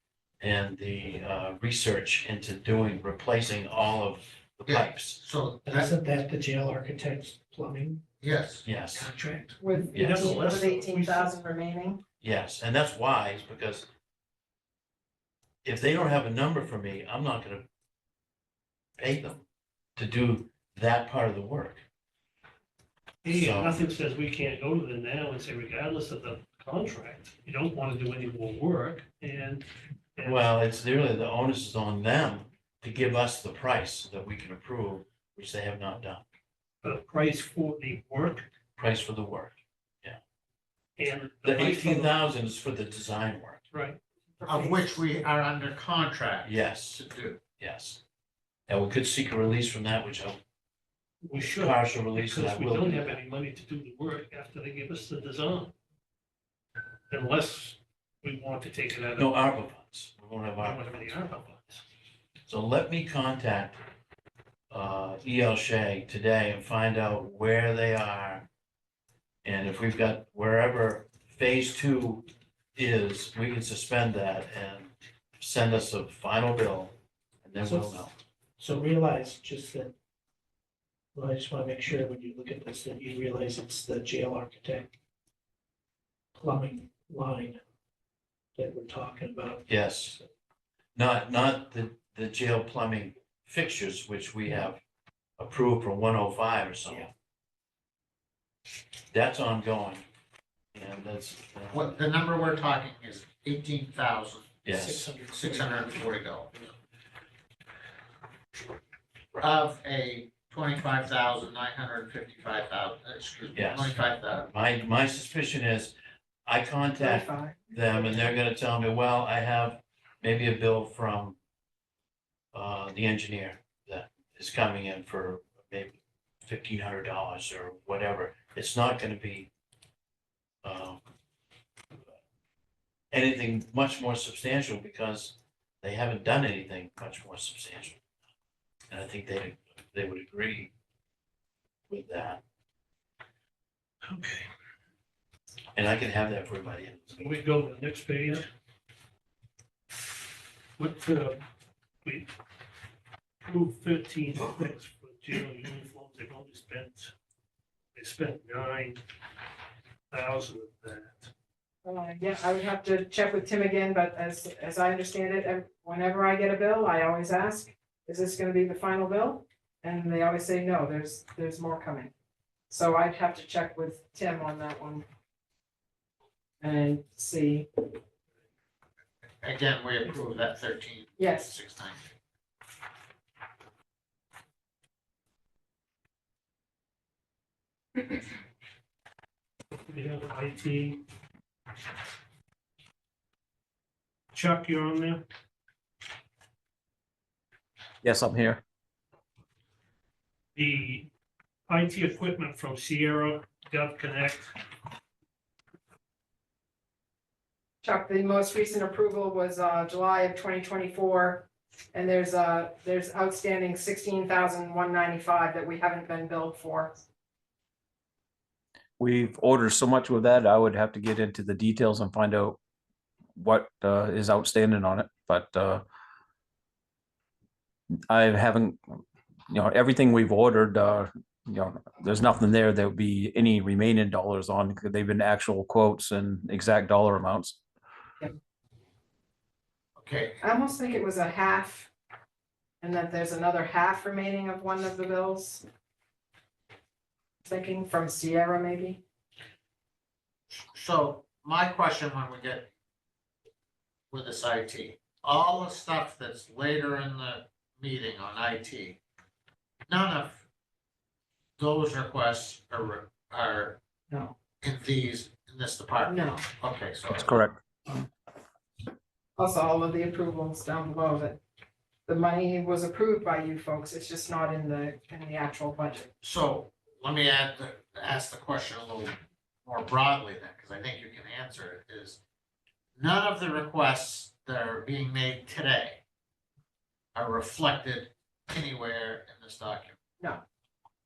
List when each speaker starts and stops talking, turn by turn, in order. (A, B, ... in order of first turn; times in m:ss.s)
0:00.4-0:05.2 A
0:04.7-0:05.9 B
0:05.6-0:08.0 C
0:08.2-0:08.7 B
0:08.6-0:09.1 A
0:08.9-0:09.9 C
0:09.6-0:12.0 D
0:09.9-0:10.3 A
0:10.0-0:11.4 E
0:12.2-0:13.9 A
0:15.6-0:17.7 A
0:19.0-0:19.4 A
0:20.0-0:21.8 A
0:23.2-0:30.5 E
0:23.3-0:23.8 A
0:30.2-0:36.2 A
0:36.8-0:38.5 E
0:38.8-0:40.2 A
0:41.0-0:42.2 E
0:41.4-0:43.6 A
0:43.7-0:44.0 E
0:44.4-0:45.0 D
0:44.4-0:47.4 B
0:46.4-0:47.0 A
0:47.6-0:48.0 A
0:48.7-0:50.4 A
0:51.2-0:55.7 E
0:51.5-0:53.2 A
0:57.1-0:59.3 E
0:59.2-1:01.2 A
1:00.6-1:01.8 E
1:02.5-1:03.8 A
1:04.7-1:08.5 A
1:09.4-1:12.2 A
1:12.8-1:18.1 A
1:17.6-1:18.0 C
1:18.6-1:19.9 C
1:21.2-1:24.9 C
1:26.4-1:27.6 C
1:28.6-1:29.6 C
1:29.7-1:30.2 A
1:31.0-1:34.8 A
1:35.4-1:37.1 A
1:39.1-1:40.0 A
1:40.7-1:41.9 A
1:41.7-1:46.6 B
1:44.6-1:45.0 A
1:44.7-1:46.2 C
1:49.4-1:54.5 B
1:53.6-1:54.0 A
1:54.5-1:55.9 A
1:56.5-2:01.4 A
1:57.0-1:58.3 D
2:02.5-2:09.5 A
2:10.6-2:11.0 A
2:13.1-2:18.0 A
2:18.9-2:20.7 A
2:21.9-2:22.4 A
2:24.1-2:24.5 E
2:25.8-2:27.3 A
2:27.2-2:28.4 E
2:30.8-2:31.4 E
2:32.0-2:32.3 E
2:33.4-2:37.1 E
2:38.0-2:39.0 E
2:40.1-2:41.3 E
2:41.8-2:52.1 D
2:52.7-2:55.0 D
2:56.6-2:57.7 D
2:59.4-3:02.1 B
3:01.2-3:01.5 D
3:09.9-3:11.0 E
3:14.3-3:15.3 E
3:18.0-3:18.6 F
3:20.6-3:21.1 E
3:21.7-3:24.6 E
3:27.8-3:37.0 D
3:39.0-3:42.6 F
3:43.4-3:45.8 F
3:48.1-3:48.8 F
3:49.5-3:57.6 F
4:00.0-4:00.4 B
4:00.4-4:01.9 D
4:02.8-4:05.6 D
4:07.5-4:09.0 D
4:10.5-4:12.7 B
4:14.1-4:19.0 B
4:19.9-4:20.4 B
4:21.6-4:23.8 B
4:24.6-4:27.4 B
4:26.1-4:26.4 D
4:27.2-4:28.1 F
4:29.4-4:31.4 D
4:32.1-4:36.1 D
4:36.2-4:42.2 B
4:43.0-4:46.0 B
4:47.2-4:50.0 B